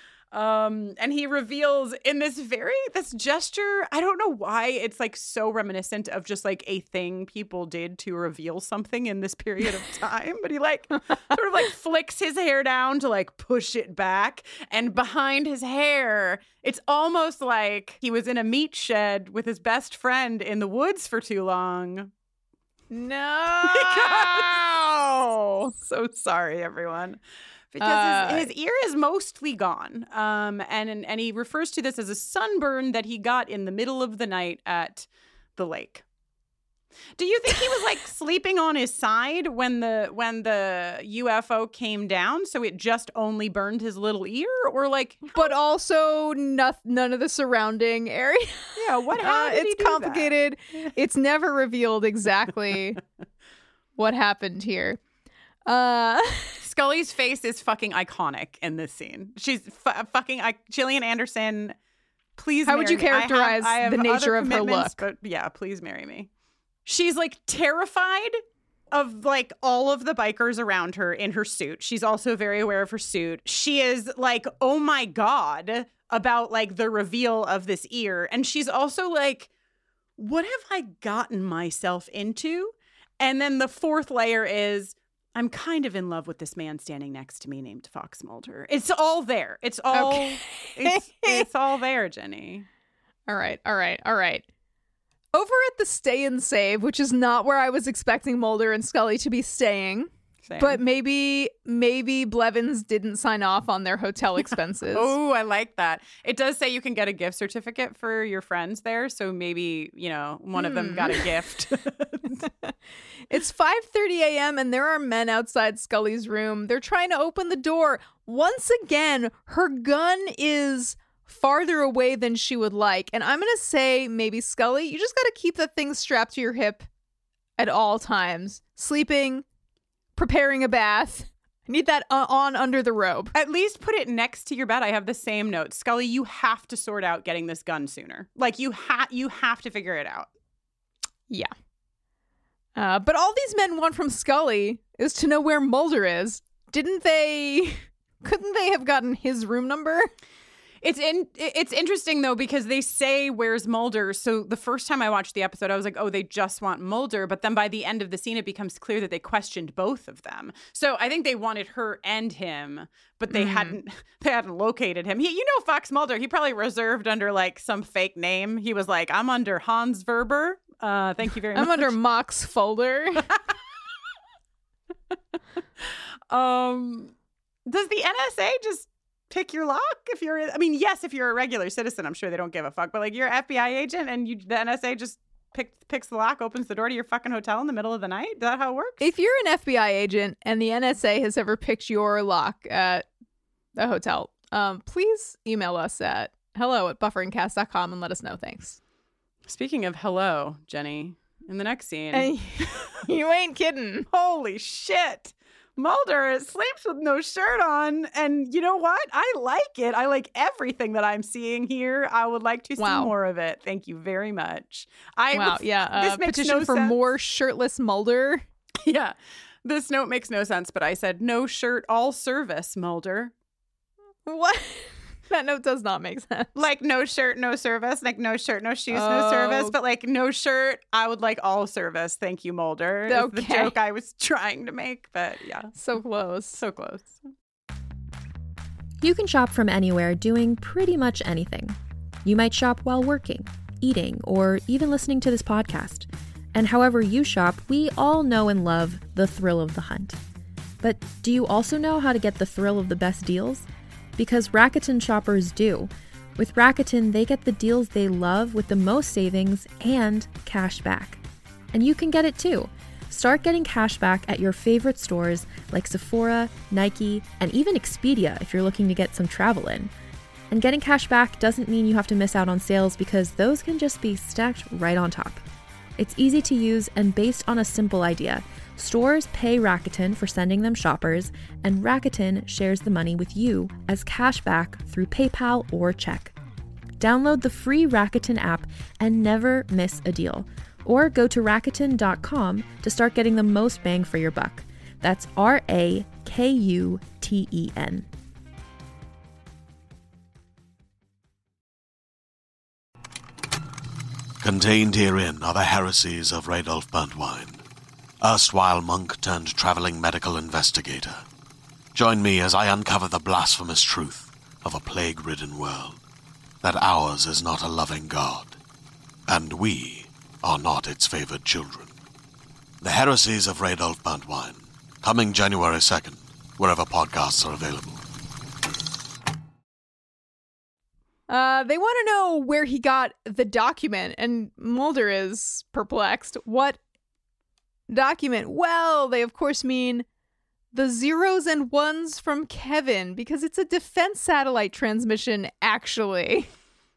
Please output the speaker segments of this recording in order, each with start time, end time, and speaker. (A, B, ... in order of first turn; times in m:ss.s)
0:00.3-0:22.1 A
0:22.9-0:24.6 B
0:23.6-0:25.2 A
0:25.3-0:25.7 B
0:25.8-0:27.2 A
0:27.7-0:36.0 A
0:27.8-0:28.5 B
0:37.2-0:45.5 A
0:45.4-0:53.0 B
0:48.8-0:50.9 A
0:54.0-0:55.0 B
0:55.7-0:56.6 B
0:56.6-1:01.8 A
1:02.4-1:06.3 A
1:02.7-1:05.0 B
1:06.9-1:08.4 A
1:08.9-1:19.5 A
1:20.2-1:32.7 A
1:29.9-1:31.4 B
1:33.3-1:34.4 B
1:35.3-1:45.1 B
1:40.4-1:40.8 A
1:45.0-1:52.5 A
1:50.6-1:51.3 B
1:53.3-2:06.9 B
2:07.6-2:09.4 B
2:10.2-2:13.3 B
2:13.3-2:20.3 A
2:22.8-2:30.1 B
2:30.8-2:51.9 A
2:43.3-2:43.8 B
2:51.6-2:53.3 B
2:55.8-2:57.1 A
2:57.7-3:09.0 A
3:09.0-3:13.0 B
3:13.8-3:18.8 B
3:19.5-3:23.0 A
3:22.1-3:24.1 B
3:24.1-3:37.1 A
3:32.8-3:33.1 B
3:35.3-3:38.4 B
3:38.8-3:43.3 A
3:44.3-3:46.5 B
3:46.6-3:55.7 A
3:48.9-3:49.8 B
3:53.1-3:53.7 B
3:55.8-3:56.6 B
3:56.6-3:57.2 A
3:59.0-4:10.2 C
4:10.8-4:29.9 C
4:30.5-4:35.4 C
4:36.0-4:46.4 C
4:47.0-4:58.1 C
5:04.4-5:07.6 D
5:08.2-5:11.2 D
5:11.9-5:16.0 D
5:16.6-5:18.6 D
5:19.3-5:21.9 D
5:22.8-5:28.0 D
5:31.3-5:36.8 B
5:37.9-5:40.1 B
5:40.7-5:46.5 B